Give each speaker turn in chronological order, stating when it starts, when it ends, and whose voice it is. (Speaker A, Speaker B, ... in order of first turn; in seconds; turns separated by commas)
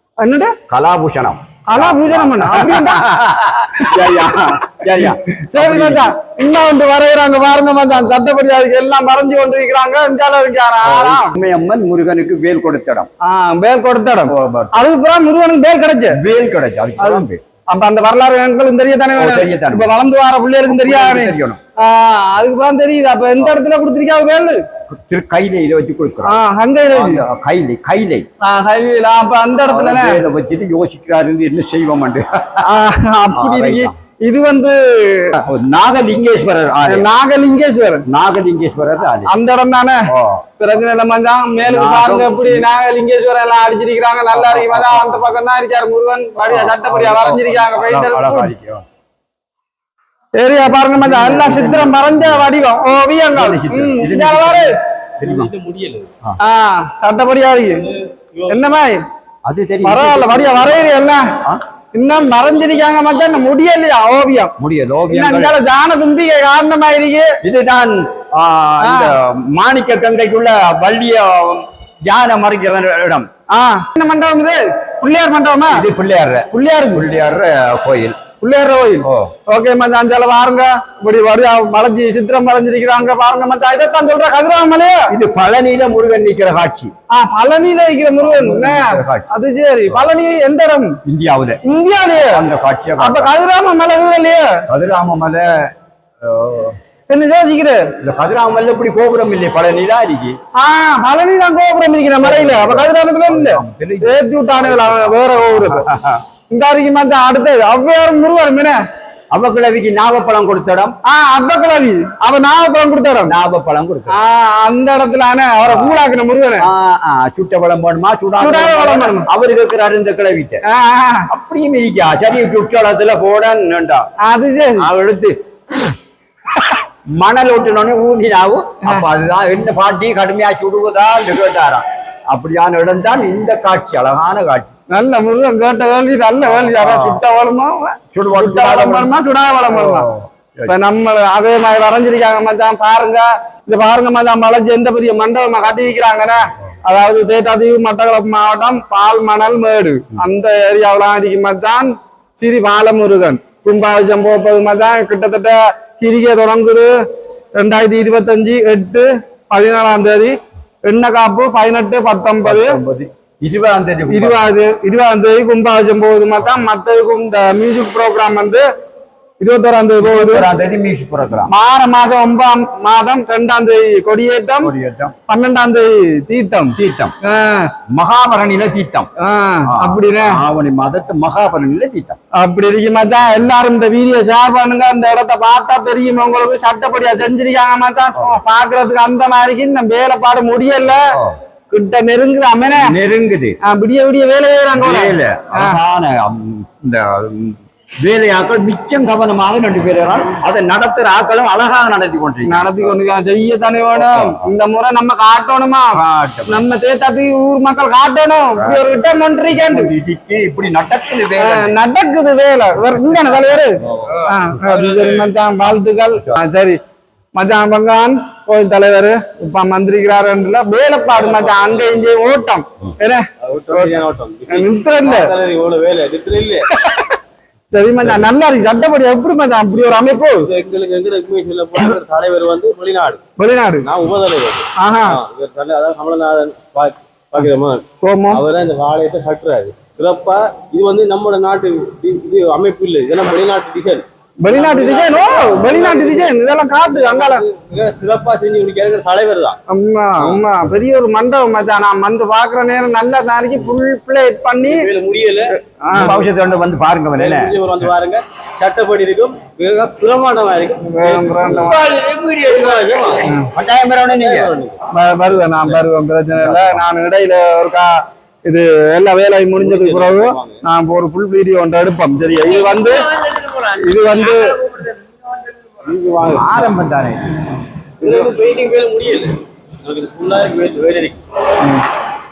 Speaker A: 0.2-0.6, Speaker B: 0.7-6.1, Speaker A: 1.7-3.1, Speaker A: 5.0-11.3, Speaker B: 10.8-13.1, Speaker A: 13.2-16.2, Speaker B: 14.3-14.8, Speaker B: 16.1-17.4, Speaker A: 17.0-24.6, Speaker B: 19.1-19.9, Speaker B: 20.7-21.6, Speaker B: 24.9-26.4, Speaker A: 26.2-27.2, Speaker B: 26.9-28.3, Speaker A: 28.4-30.2, Speaker B: 29.7-32.6, Speaker A: 32.6-35.4, Speaker B: 33.3-33.9, Speaker B: 35.5-37.1, Speaker A: 36.9-38.0, Speaker B: 38.1-39.3, Speaker A: 39.3-48.5, Speaker B: 40.1-40.4, Speaker B: 41.6-42.7, Speaker B: 44.3-45.3, Speaker B: 46.4-48.8, Speaker A: 50.4-54.7, Speaker B: 50.9-52.5, Speaker B: 53.3-55.5, Speaker C: 55.2-56.1, Speaker A: 56.4-57.9, Speaker C: 58.1-58.6, Speaker A: 58.5-59.0, Speaker B: 59.5-61.6, Speaker A: 59.8-61.3, Speaker A: 61.9-64.5, Speaker B: 64.6-65.6, Speaker A: 65.1-67.4, Speaker B: 67.4-73.3, Speaker A: 68.8-69.1, Speaker A: 73.5-75.8, Speaker B: 75.7-78.2, Speaker A: 76.5-77.0, Speaker A: 78.4-85.1, Speaker B: 79.0-79.3, Speaker B: 85.1-86.9, Speaker A: 87.1-91.0, Speaker B: 88.2-89.2, Speaker B: 91.0-91.6, Speaker A: 91.6-92.4, Speaker B: 92.1-93.3, Speaker A: 93.0-94.6, Speaker B: 94.7-96.8, Speaker A: 97.1-97.9, Speaker B: 98.0-100.3, Speaker A: 100.5-105.8, Speaker B: 102.2-106.2, Speaker A: 106.5-108.8, Speaker B: 109.3-110.9, Speaker A: 111.0-113.3, Speaker B: 113.2-114.2, Speaker A: 114.1-116.7, Speaker B: 115.7-116.0, Speaker B: 116.6-120.6, Speaker A: 118.4-119.3, Speaker A: 120.7-121.3, Speaker B: 121.3-124.0, Speaker A: 124.2-124.9, Speaker B: 124.8-125.3, Speaker B: 127.2-134.7, Speaker A: 134.9-140.1, Speaker B: 136.5-137.2, Speaker B: 138.1-139.1, Speaker B: 139.7-140.7, Speaker A: 140.7-156.9, Speaker A: 157.6-162.8, Speaker B: 162.4-164.5, Speaker A: 164.1-168.7, Speaker A: 169.4-170.5, Speaker B: 170.0-171.5, Speaker A: 171.5-174.7, Speaker B: 174.6-175.2, Speaker A: 175.3-177.7, Speaker B: 176.8-177.2, Speaker B: 177.9-179.1, Speaker A: 179.2-180.4, Speaker B: 179.7-182.2, Speaker A: 182.3-191.2, Speaker B: 191.1-191.4, Speaker A: 191.7-192.9, Speaker B: 192.7-193.6, Speaker A: 193.6-195.8, Speaker B: 194.7-202.9, Speaker A: 202.5-206.0, Speaker B: 203.9-204.5, Speaker B: 205.9-206.6, Speaker A: 206.5-209.9, Speaker B: 208.6-208.8, Speaker B: 209.5-211.7, Speaker A: 211.4-216.8, Speaker C: 214.9-215.3, Speaker A: 217.3-225.3, Speaker C: 221.2-222.2, Speaker C: 223.4-226.7, Speaker A: 226.9-227.1, Speaker A: 227.7-230.5, Speaker C: 230.3-233.2, Speaker A: 233.4-233.9, Speaker C: 233.8-246.3, Speaker A: 234.8-235.2, Speaker A: 238.0-238.4, Speaker A: 244.4-247.4, Speaker C: 246.9-249.6, Speaker A: 249.7-254.8, Speaker C: 254.6-255.6, Speaker A: 255.7-256.2, Speaker B: 255.9-257.6, Speaker C: 257.2-263.3, Speaker A: 260.8-261.9, Speaker A: 263.2-263.5, Speaker B: 263.5-264.5, Speaker C: 264.2-264.8, Speaker A: 264.9-267.9, Speaker B: 266.4-266.8, Speaker A: 268.4-273.1, Speaker C: 269.6-270.6, Speaker A: 273.7-274.6, Speaker C: 275.8-276.7, Speaker B: 276.3-277.4, Speaker C: 278.0-281.2